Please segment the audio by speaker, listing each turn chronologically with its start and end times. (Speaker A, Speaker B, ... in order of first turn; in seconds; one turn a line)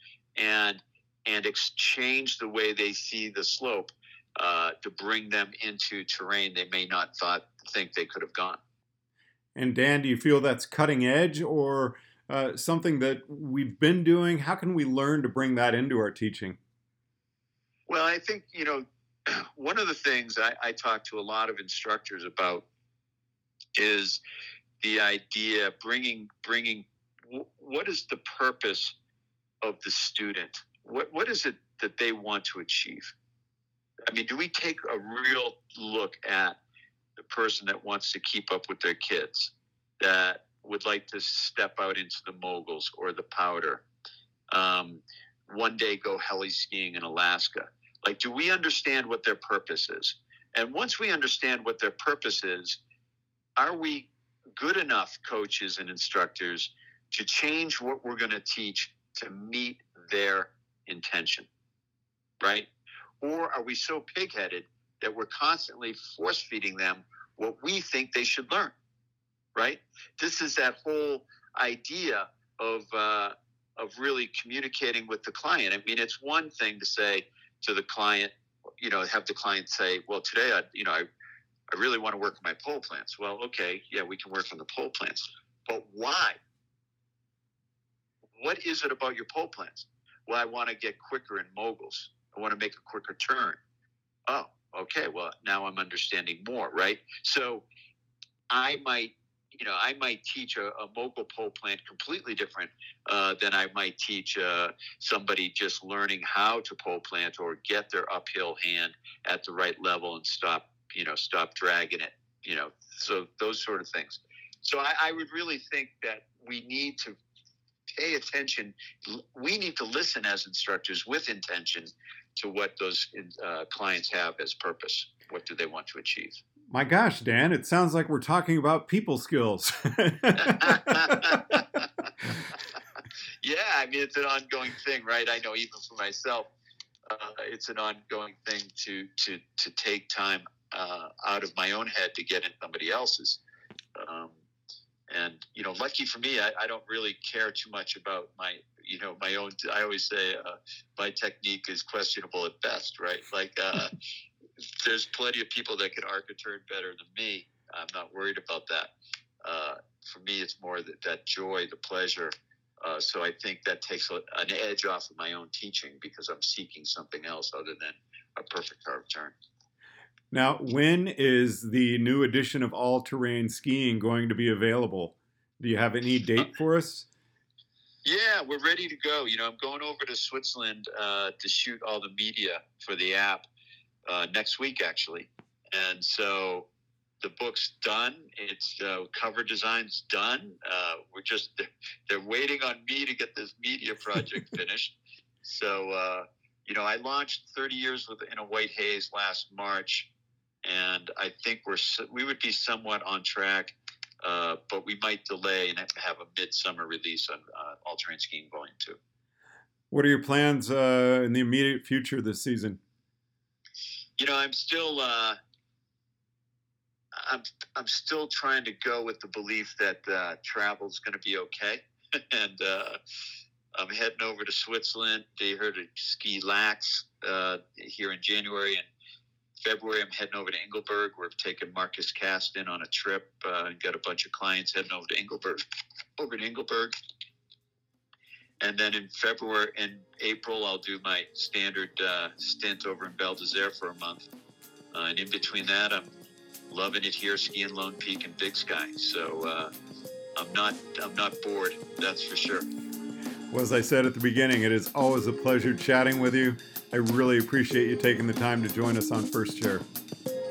Speaker A: 0.4-8.6
Speaker B: 9.6-16.6
Speaker A: 17.9-22.6
Speaker A: 23.8-24.2
Speaker A: 24.8-29.0
Speaker A: 29.6-33.1
Speaker A: 34.1-36.6
Speaker A: 37.3-43.9
Speaker A: 44.5-52.8
Speaker A: 53.6-61.5
Speaker A: 62.4-62.7
Speaker A: 63.2-68.8
Speaker A: 69.5-81.0
Speaker A: 81.7-86.4
Speaker A: 88.4-93.6
Speaker A: 94.3-97.7
Speaker A: 98.5-117.2
Speaker A: 117.9-126.4
Speaker B: 126.7-131.6
Speaker A: 130.4-132.1
Speaker A: 133.4-136.5
Speaker A: 137.1-143.4
Speaker A: 144.0-144.4
Speaker A: 145.1-153.9
Speaker A: 154.8-158.9
Speaker A: 159.4-162.3
Speaker A: 162.8-169.4
Speaker B: 170.3-177.1
Speaker A: 178.1-183.5
Speaker A: 184.1-186.7
Speaker A: 187.2-200.1
Speaker A: 200.6-209.0
Speaker B: 209.9-212.8
Speaker A: 214.2-215.4
Speaker A: 217.2-223.0
Speaker A: 223.8-228.9
Speaker A: 229.6-235.6
Speaker A: 236.2-236.9
Speaker A: 238.6-244.3
Speaker A: 244.9-246.1
Speaker A: 246.7-249.7
Speaker A: 250.4-252.7
Speaker B: 253.5-259.9